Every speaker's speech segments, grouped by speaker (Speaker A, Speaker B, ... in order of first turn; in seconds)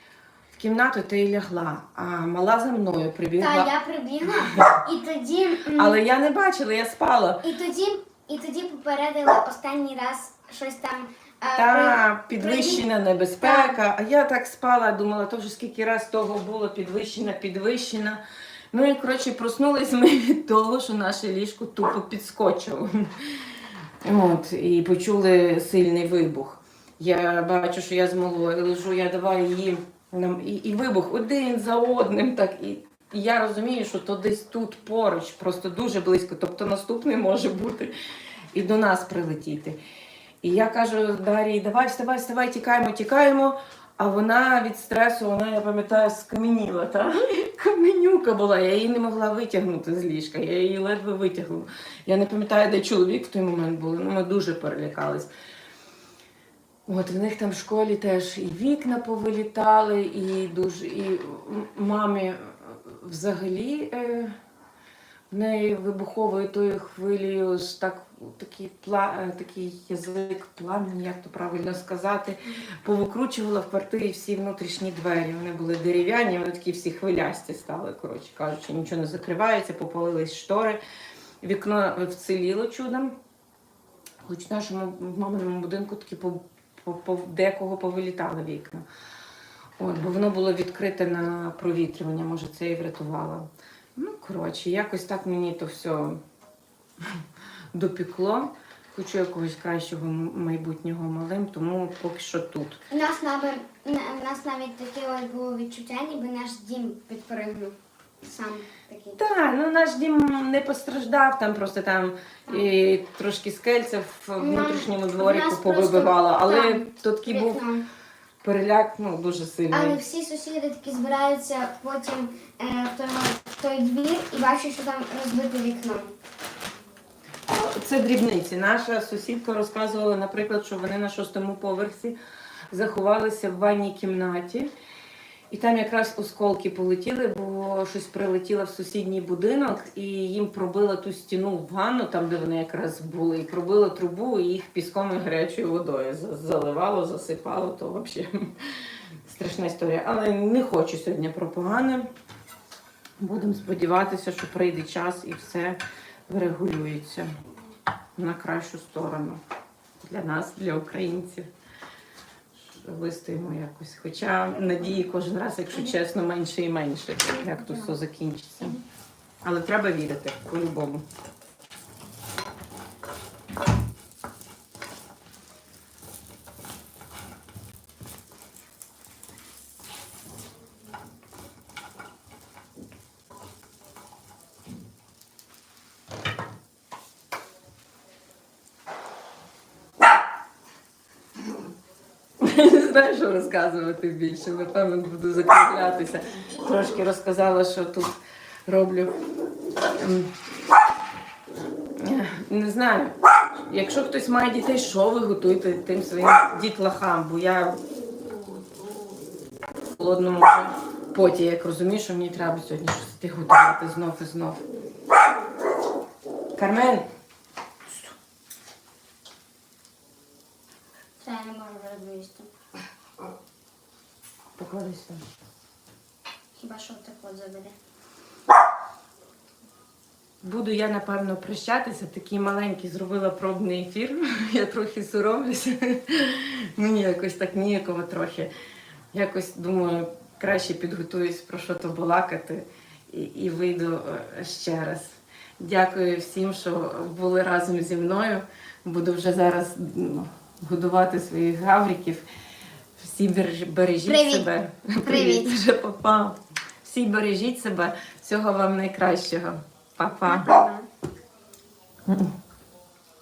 Speaker A: 0.5-3.7, 4.3-4.8, 5.7-7.5, 11.5-18.2, 18.7-37.9, 38.5-39.8, 40.4-55.3, 56.9-64.3, 65.3-80.8, 81.4-83.2, 84.2-88.8, 89.8-96.2, 97.7-102.8, 109.2-117.6, 118.4-120.0, 127.5-132.2, 132.7-134.7, 135.5-152.1, 153.2-157.3, 158.2-159.4, 160.0-161.5, 162.6-168.8, 169.4-171.1, 192.4-199.2, 200.0-200.3, 201.9-203.2, 203.7-207.8, 210.0-214.7, 216.6-217.1, 224.6-225.2, 230.4-238.5, 239.1-252.2, 253.0-260.5, 262.1-262.3
Speaker B: 3.4-6.0, 7.4-12.8, 13.4-13.8, 102.9-109.2, 114.4-117.9, 119.7-126.1, 167.3-168.0, 221.2-222.5, 226.6-227.8, 254.1-254.5, 255.1-255.5, 260.2-260.9